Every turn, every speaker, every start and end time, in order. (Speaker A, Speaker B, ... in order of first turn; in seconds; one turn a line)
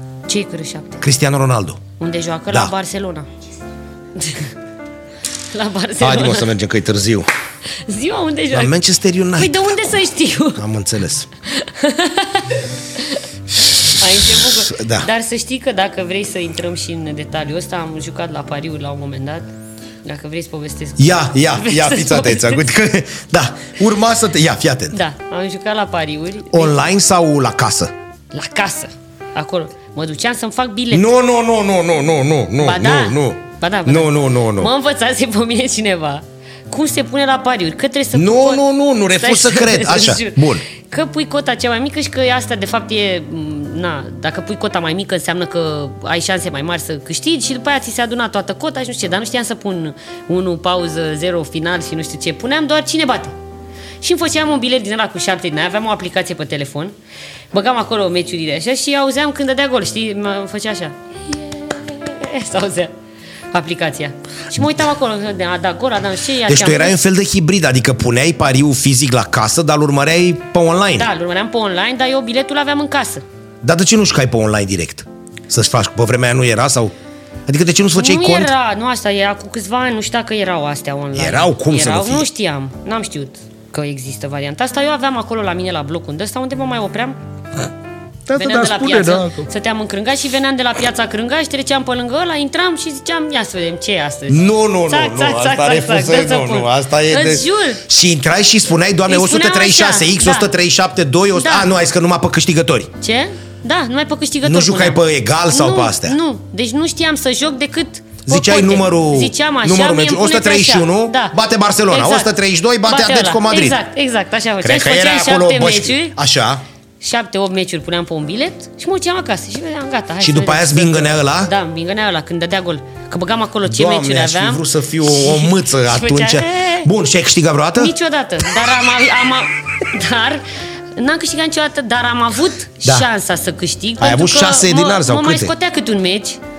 Speaker A: 0.3-1.0
Speaker B: 1.0-1.8
Speaker A: 2.0-3.3
Speaker A: 4.1-4.5
Speaker A: 5.5-6.5
Speaker B: 6.0-7.3
Speaker A: 7.7-8.8
Speaker B: 8.5-9.7
Speaker A: 9.3-10.6
Speaker B: 10.6-11.3
Speaker A: 11.4-13.2
Speaker A: 13.8-19.5
Speaker B: 14.5-15.1
Speaker A: 20.0-22.6
Speaker B: 21.0-25.0
Speaker A: 24.9-26.8
Speaker B: 26.5-27.9
Speaker A: 28.3-31.1
Speaker B: 30.9-34.7
Speaker A: 32.6-53.3
Speaker B: 38.1-40.6
Speaker A: 54.0-56.9
Speaker A: 57.5-62.9
Speaker A: 63.5-67.0
Speaker B: 66.5-71.1
Speaker A: 70.9-73.2
Speaker B: 73.6-76.9
Speaker B: 77.5-78.5
Speaker A: 77.9-87.2
Speaker B: 81.1-82.3
Speaker B: 88.3-89.5
Speaker A: 88.3-97.8
Speaker B: 94.3-102.9
Speaker A: 99.1-100.5
Speaker A: 101.3-101.7
Speaker A: 103.0-112.3
Speaker B: 104.4-106.2
Speaker B: 108.2-113.8
Speaker A: 112.8-116.2
Speaker B: 114.6-116.6
Speaker A: 117.0-126.9
Speaker B: 120.2-121.5
Speaker B: 123.6-127.9
Speaker A: 127.7-130.4
Speaker A: 130.9-136.4
Speaker B: 134.0-135.5